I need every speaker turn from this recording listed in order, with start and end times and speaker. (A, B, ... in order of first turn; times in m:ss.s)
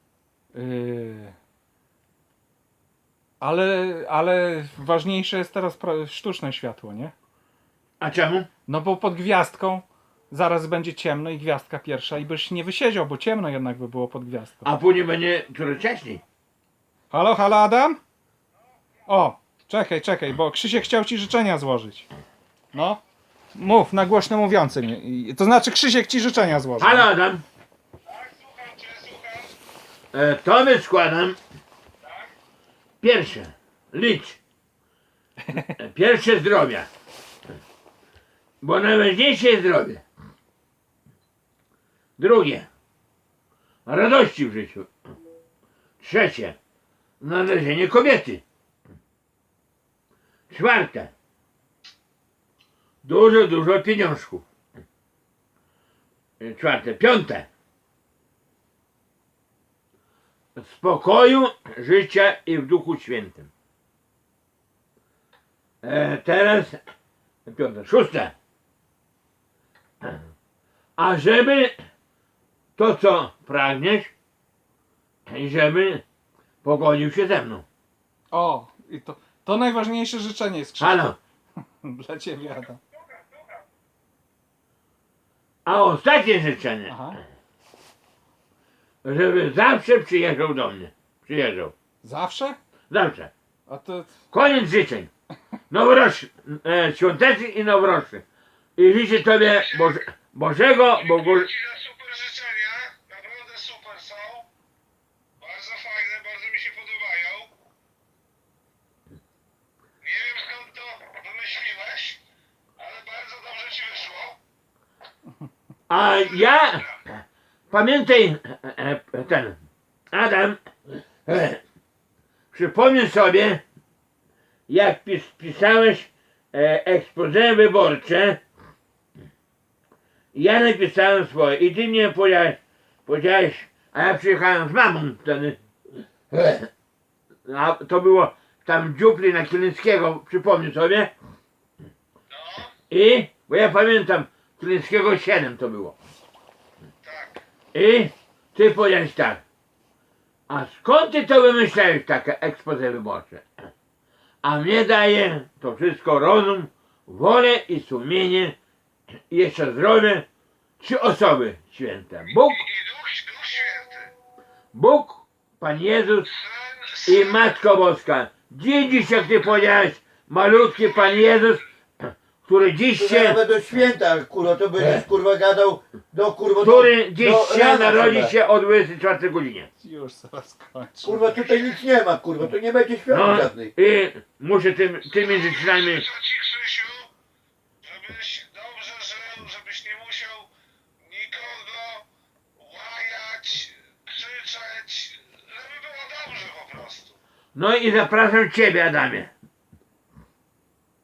0:00.5-0:01.3 A
0:03.4-0:07.1 A
0:08.0-0:08.5 B
0:08.7-0:14.7 A
0:14.6-0:16.2 B
0:17.1-0:18.0 A
0:19.1-0:22.1 A
0:22.7-0:23.0 A
0:23.5-0:27.1 A
0:26.8-0:27.4 B
0:28.5-0:29.4 C
0:30.1-0:31.4 B
0:33.0-0:34.4 B
0:35.7-0:36.9 B
0:38.6-0:40.0 B
0:42.2-0:42.7 B
0:43.8-0:44.9 B
0:46.0-0:46.6 B
0:47.2-0:48.4 B
0:50.5-0:51.1 B
0:53.0-0:54.4 B
0:56.4-0:57.5 B
1:00.6-1:03.5 B
1:05.8-1:06.8 B
1:07.4-1:08.3 B
1:11.0-1:11.7 B
1:12.8-1:14.1 B
1:15.3-1:16.0 B
1:16.6-1:17.6 B
1:18.3-1:21.0 A
1:20.8-1:21.2 B
1:21.8-1:22.8 A
1:25.6-1:26.9 B
1:26.9-1:27.2 A
1:29.0-1:31.7 B
1:32.0-1:32.6 A
1:32.9-1:33.3 B
1:33.7-1:34.1 A
1:34.3-1:35.1 B
1:35.7-1:38.2 B
1:38.8-1:41.5 B
1:41.5-1:44.4 C
1:45.4-1:47.5 C
1:50.0-1:52.2 C
1:52.8-1:54.4 C
1:55.9-1:57.1 B
1:57.7-1:59.6 B
2:00.1-2:00.6 B
2:01.2-2:01.6 B
2:02.5-2:03.6 B
2:04.7-2:08.4 B
2:10.3-2:15.6 B
2:16.3-2:16.7 B
2:17.5-2:21.1 B
2:22.9-2:26.0 B
2:27.0-2:27.4 C
2:27.7-2:29.4 B
2:30.5-2:33.4 B
2:34.4-2:38.6 B
2:39.3-2:40.2 B
2:40.8-2:42.7 B
2:42.7-2:44.1 C
2:44.7-2:46.4 B
2:46.5-2:47.0 C
2:47.0-2:53.4 B
2:53.0-2:58.3 D
2:54.8-2:55.0 B
2:56.6-2:59.7 B
2:59.8-3:01.4 A
3:01.0-3:03.7 D
3:03.1-3:06.1 B
3:06.1-3:07.1 C
3:07.8-3:10.5 C
3:11.0-3:12.0 C
3:12.6-3:17.1 C
3:17.5-3:19.3 B